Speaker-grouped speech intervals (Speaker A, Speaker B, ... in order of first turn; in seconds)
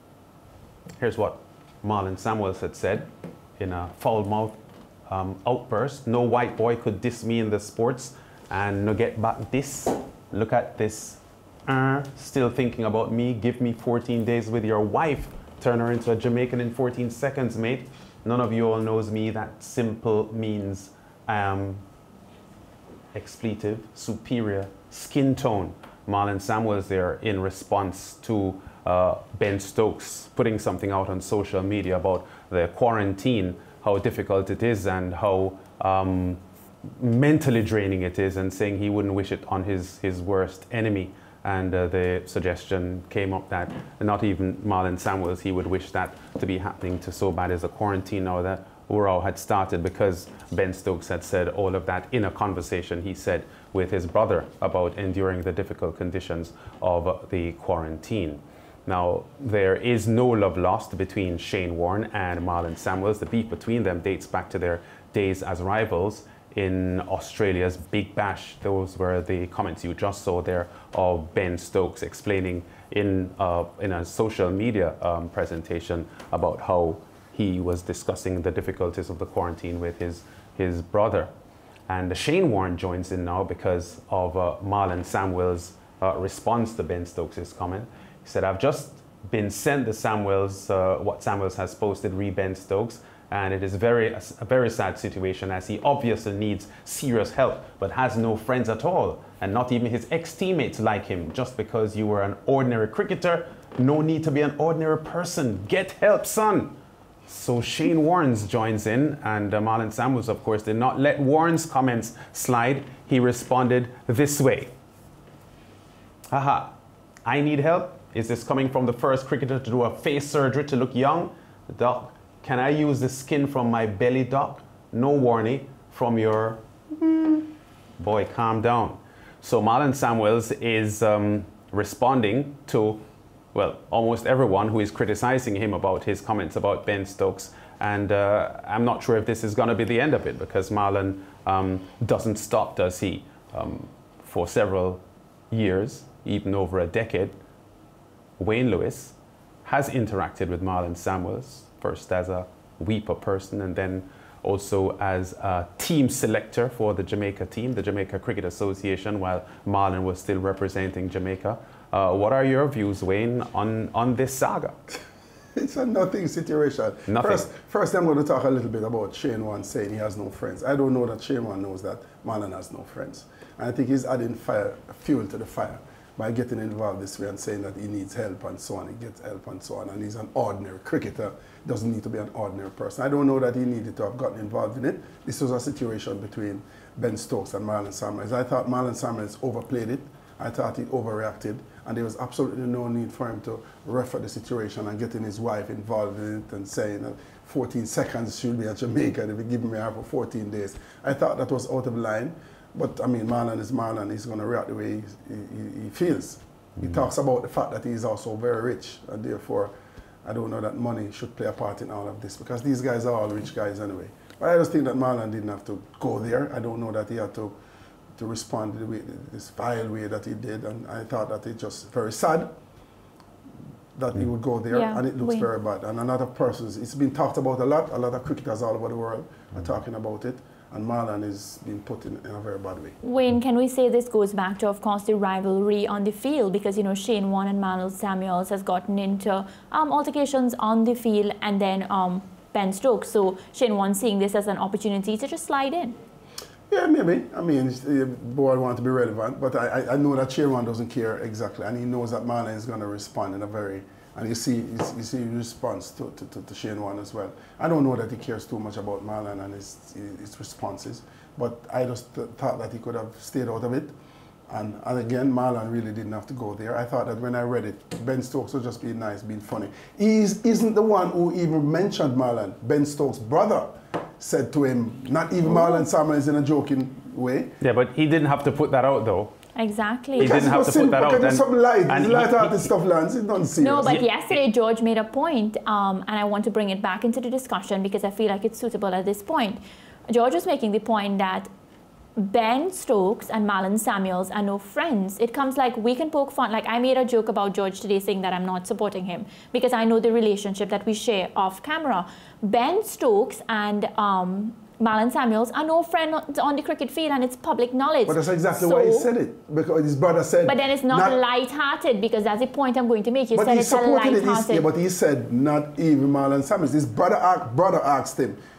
Speaker A: 1.0-3.1, 3.6-21.8, 23.1-36.4, 37.0-81.3, 81.9-106.8, 107.3-114.7, 116.3-116.7, 117.2-147.4, 148.4-164.8, 167.1-167.5, 277.6-279.3, 280.2-282.7
Speaker B: 165.6-209.7, 210.2-217.6, 218.2-222.5, 224.0-232.9, 246.7-263.9, 264.5-277.6, 280.2-284.0, 308.1-311.2, 313.4-318.4
Speaker C: 224.7-225.5, 233.0-246.0, 275.5-275.8, 279.6-280.5, 283.6-291.5, 292.2-309.1, 310.4-314.7